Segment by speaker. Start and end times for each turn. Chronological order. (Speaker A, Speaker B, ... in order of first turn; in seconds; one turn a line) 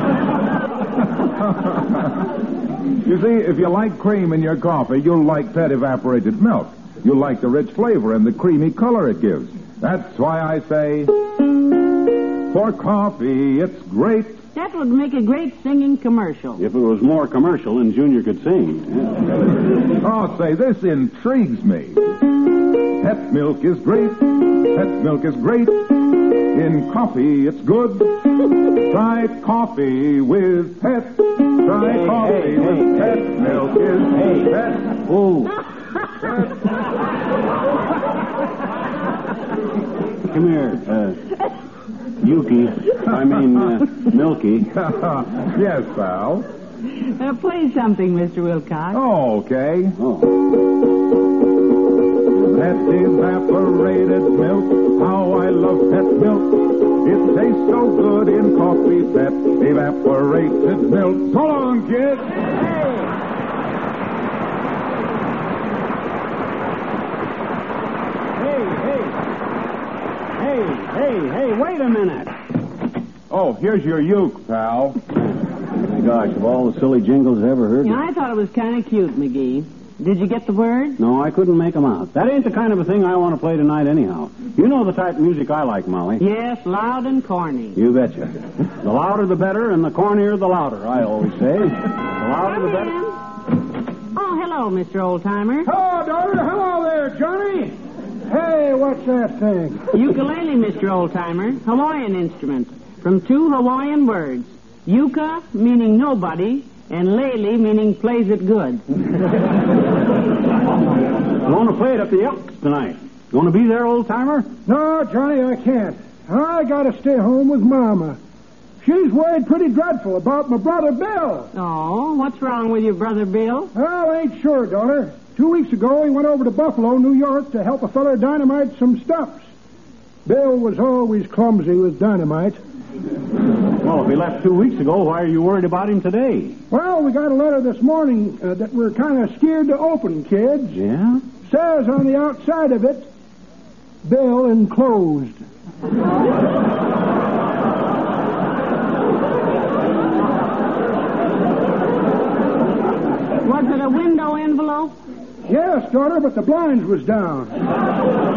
Speaker A: 1.2-2.3
Speaker A: 3.0-11.2
Speaker A: 12.5-14.4
Speaker B: 14.6-16.6
Speaker C: 16.6-19.5
Speaker A: 20.0-22.1
Speaker A: 22.8-35.0
Speaker C: 31.8-35.6
Speaker C: 40.3-41.2
Speaker C: 42.2-44.7
Speaker A: 44.7-46.5
Speaker B: 46.9-49.0
Speaker A: 48.9-50.0
Speaker C: 50.0-50.4
Speaker A: 52.5-62.4
Speaker C: 62.6-63.1
Speaker C: 68.4-69.2
Speaker C: 70.4-72.3
Speaker A: 73.3-75.0
Speaker C: 75.7-78.0
Speaker B: 77.8-81.0
Speaker C: 81.0-86.2
Speaker B: 86.2-87.8
Speaker C: 87.8-93.0
Speaker B: 92.4-93.2
Speaker B: 94.1-95.7
Speaker D: 95.7-99.9
Speaker B: 99.9-108.8
Speaker C: 111.4-114.5
Speaker D: 114.7-118.2
Speaker D: 118.8-121.5
Speaker B: 121.5-123.7
Speaker D: 123.7-129.4
Speaker D: 130.2-132.6
Speaker C: 133.8-136.6
Speaker D: 136.7-140.8
Speaker C: 140.7-141.2
Speaker D: 141.4-143.1
Speaker D: 144.0-145.4
Speaker B: 153.4-154.9
Speaker D: 155.5-157.6